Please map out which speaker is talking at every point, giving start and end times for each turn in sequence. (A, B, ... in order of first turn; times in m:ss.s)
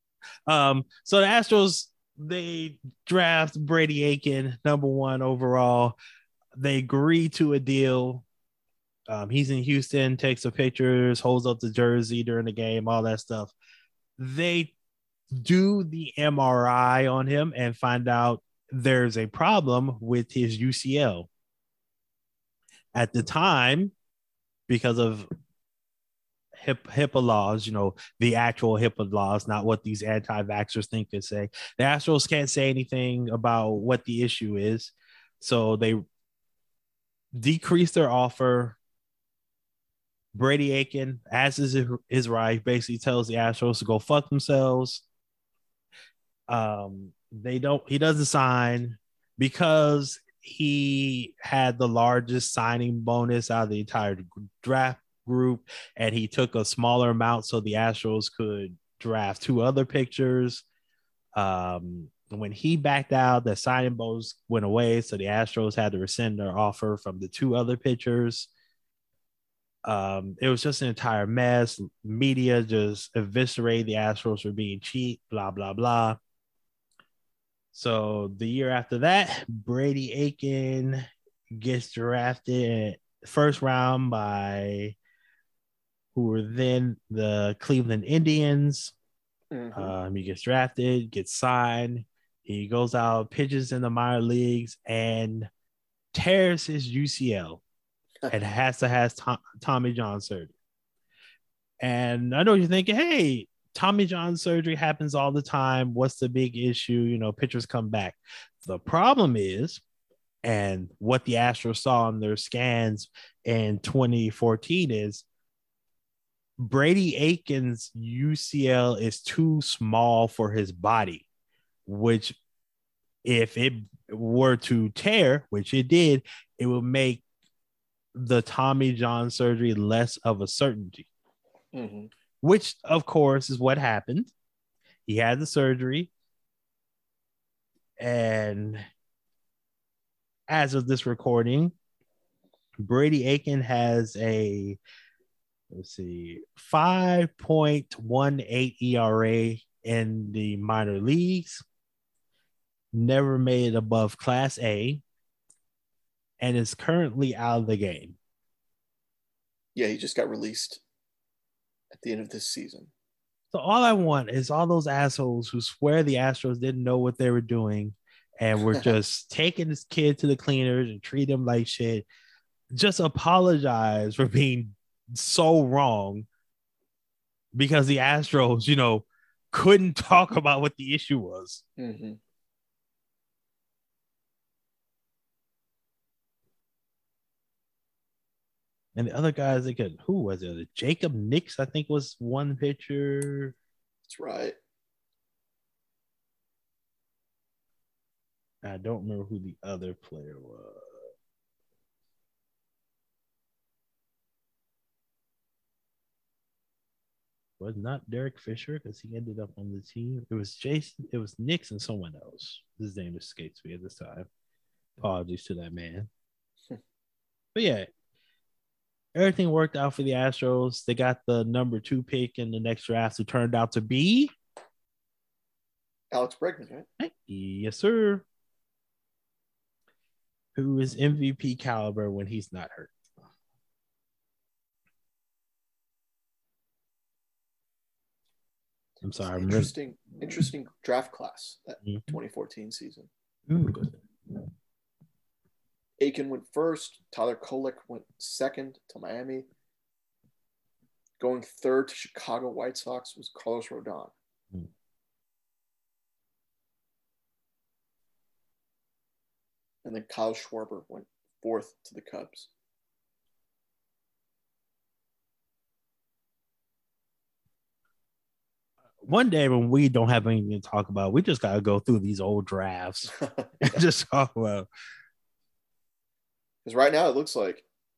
0:00.5-0:06.0 A
0:06.5-0:08.2 A
0:09.1-0:13.5 A
0:14.2-0:14.7 A
0:15.3-0:21.3 A
0:22.9-0:23.9 A
0:24.7-0:25.3 A
0:26.6-0:36.0 A
0:37.3-0:38.8 A
0:40.3-0:45.0 A
0:46.5-1:00.6 A
1:01.3-1:08.5 A
1:09.8-1:16.2 A
1:17.7-1:24.9 A
1:26.1-1:28.9 A
1:29.5-1:29.9 B
1:29.7-1:35.5 A
1:36.1-1:37.6 A
1:38.3-1:40.5 A
1:41.8-1:49.8 A
1:50.4-1:55.2 A
1:56.6-2:01.2 A
2:01.8-2:02.4 A
2:03.2-2:07.2 A
2:08.1-2:11.1 A
2:11.7-2:12.1 B
2:12.4-2:14.3 A
2:15.0-2:16.1 A
2:18.0-2:18.8 A
2:20.5-2:21.7 A
2:22.8-2:24.8 A
2:25.7-2:31.6 A
2:32.9-2:35.0 A
2:36.4-2:38.2 A
2:39.8-2:40.8 B
2:41.9-2:42.9 B
2:43.5-2:52.0 A
2:52.7-2:56.2 A
2:57.5-3:01.6 A
3:01.8-3:02.2 B
3:08.9-3:13.6 A
3:14.1-3:14.6 B
3:18.6-3:21.1 A
3:27.6-3:34.3 A
3:35.0-3:36.1 A
3:37.5-3:37.9 A
3:39.1-3:44.3 A
3:46.1-3:46.9 B
3:47.0-3:48.2 A
3:50.5-3:52.9 A
3:59.0-3:59.7 A
3:59.2-4:03.1 B
4:01.8-4:02.1 A
4:03.5-4:04.0 A
4:06.0-4:09.4 B
4:11.2-4:14.1 B
4:19.8-4:22.5 B
4:29.0-4:34.7 A
4:33.2-4:33.8 B
4:36.6-4:37.6 B